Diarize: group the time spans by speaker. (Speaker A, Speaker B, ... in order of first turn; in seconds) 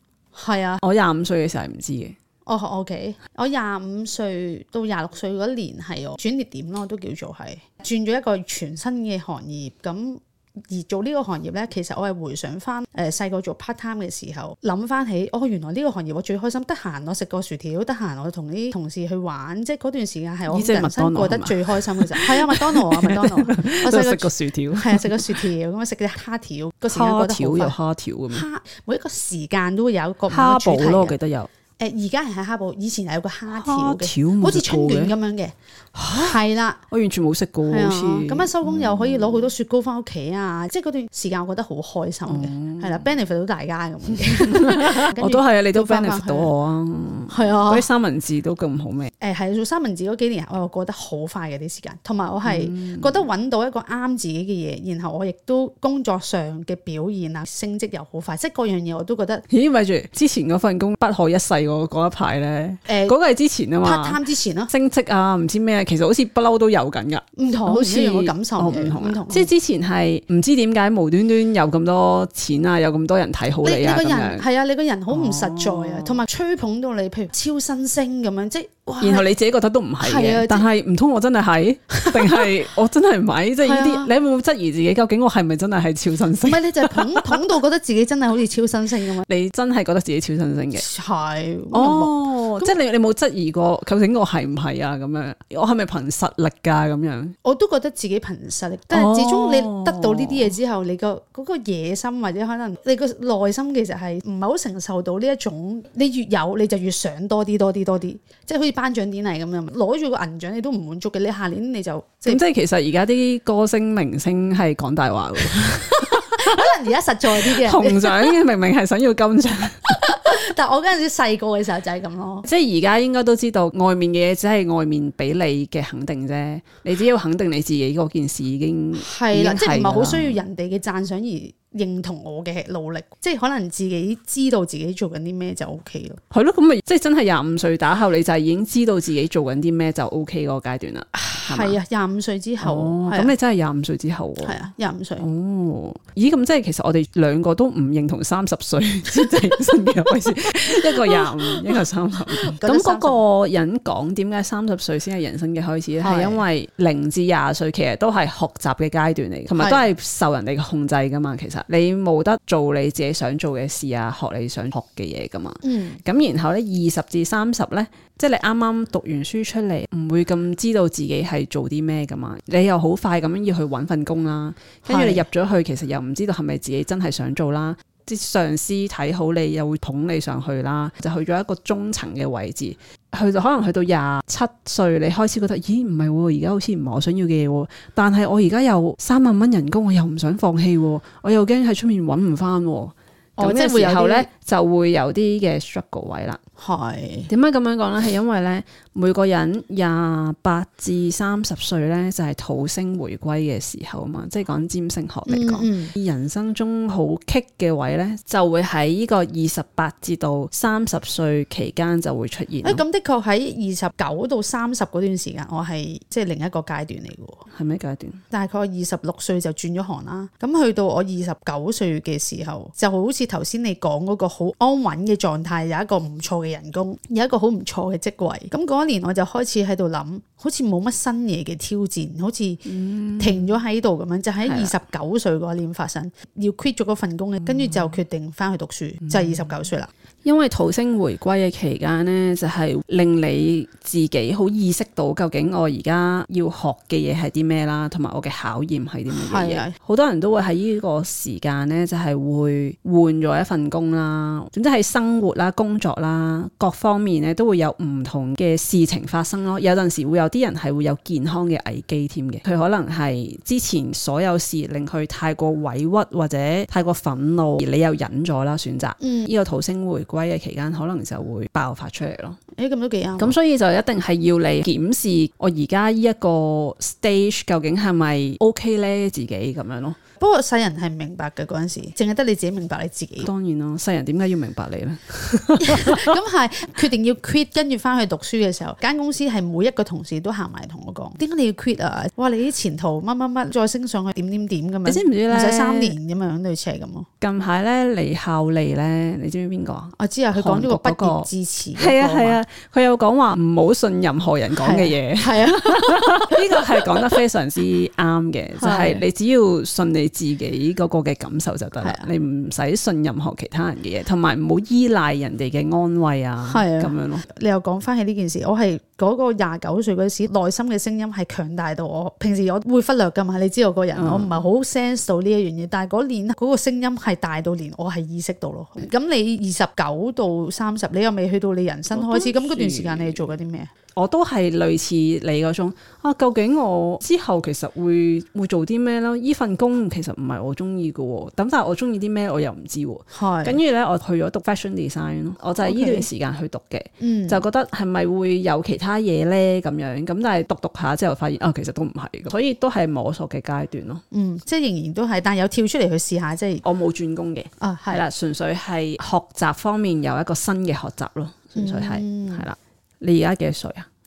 Speaker A: 0.3-0.8, 2.4-27.8, 28.3-31.1, 31.8-35.5, 36.1-36.8, 37.7-46.5, 47.3-47.9, 49.2-59.4, 62.9-63.2, 63.8-64.7, 67.3-69.5, 73.6-79.3, 80.0-80.7, 81.9-82.5, 83.6-84.1, 86.4-89.2, 90.7-92.8, 97.4-112.4, 115.9-118.3, 119.9-122.5, 128.9-136.2, 141.1-143.3, 144.4-145.3, 150.8-151.7, 152.4-153.2, 156.0-156.4, 159.6-159.8, 165.6-166.0, 174.8-175.2, 193.4-194.3, 196.6-197.3, 205.3-205.9, 212.6-217.4, 218.3-239.9, 249.1-249.7, 269.0-269.3, 272.5-273.4, 280.2-283.3, 285.6-297.1, 299.9-302.4, 304.6-307.1, 308.6-309.0, 311.8-312.1, 316.4-333.7, 343.1-343.6, 345.6-346.1, 347.0-347.4, 354.1-356.6, 357.6-358.1, 361.5-362.5
Speaker B: 0.8-2.1, 20.5-25.4, 26.9-28.4, 30.3-31.5, 33.5-35.1, 35.9-39.5, 42.2-43.1, 44.4-49.1, 52.4-53.2, 59.5-74.5, 75.1-76.2, 79.0-87.4, 89.2-90.8, 91.7-97.3, 98.9-100.5, 112.2-116.7, 117.3-120.2, 122.4-130.4, 136.3-141.8, 142.6-144.6, 145.2-196.4, 197.3-212.8, 217.5-218.2, 232.6-233.5, 234.4-234.7, 237.4-238.0, 239.1-239.5, 240.2-272.4, 273.2-280.0, 283.2-286.2, 294.9-295.9, 297.2-317.2, 323.9-324.4, 331.9-333.3, 333.9-354.0, 356.6-363.9